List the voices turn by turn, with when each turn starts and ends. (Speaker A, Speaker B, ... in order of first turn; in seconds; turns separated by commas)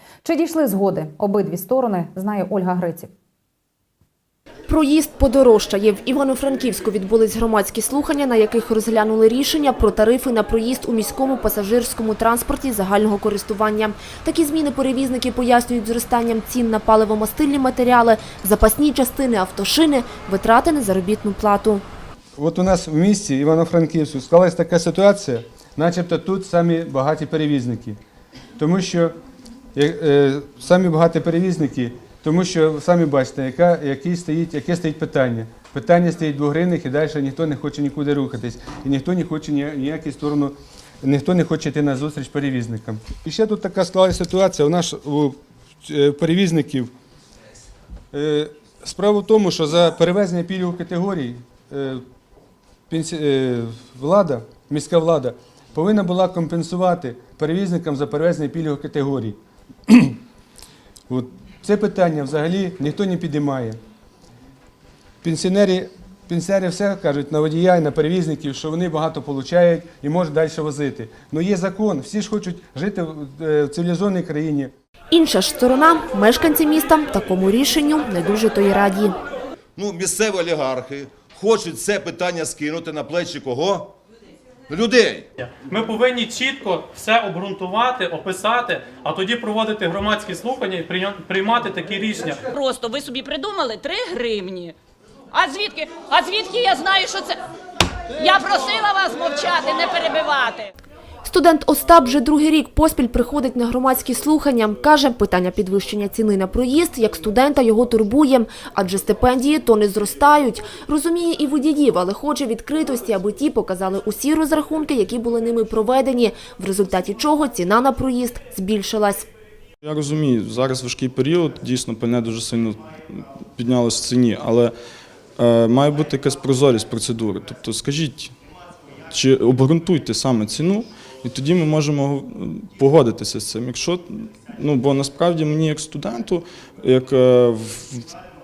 Speaker A: 0.2-3.1, Speaker B: 4.7-21.8, Speaker C: 22.4-28.0, Speaker C: 28.6-29.1, Speaker C: 29.8-46.9, Speaker C: 48.1-52.0, Speaker C: 52.9-59.4, Speaker C: 59.9-60.2, Speaker C: 61.1-63.8, Speaker C: 65.2-74.7, Speaker B: 75.1-79.2, Speaker D: 79.8-83.9, Speaker D: 84.7-85.3, Speaker E: 85.4-92.5, Speaker F: 92.5-94.8, Speaker F: 95.3-97.4, Speaker F: 98.2-100.7, Speaker B: 101.3-119.3, Speaker G: 119.8-124.7, Speaker G: 125.4-128.3, Speaker G: 129.1-138.1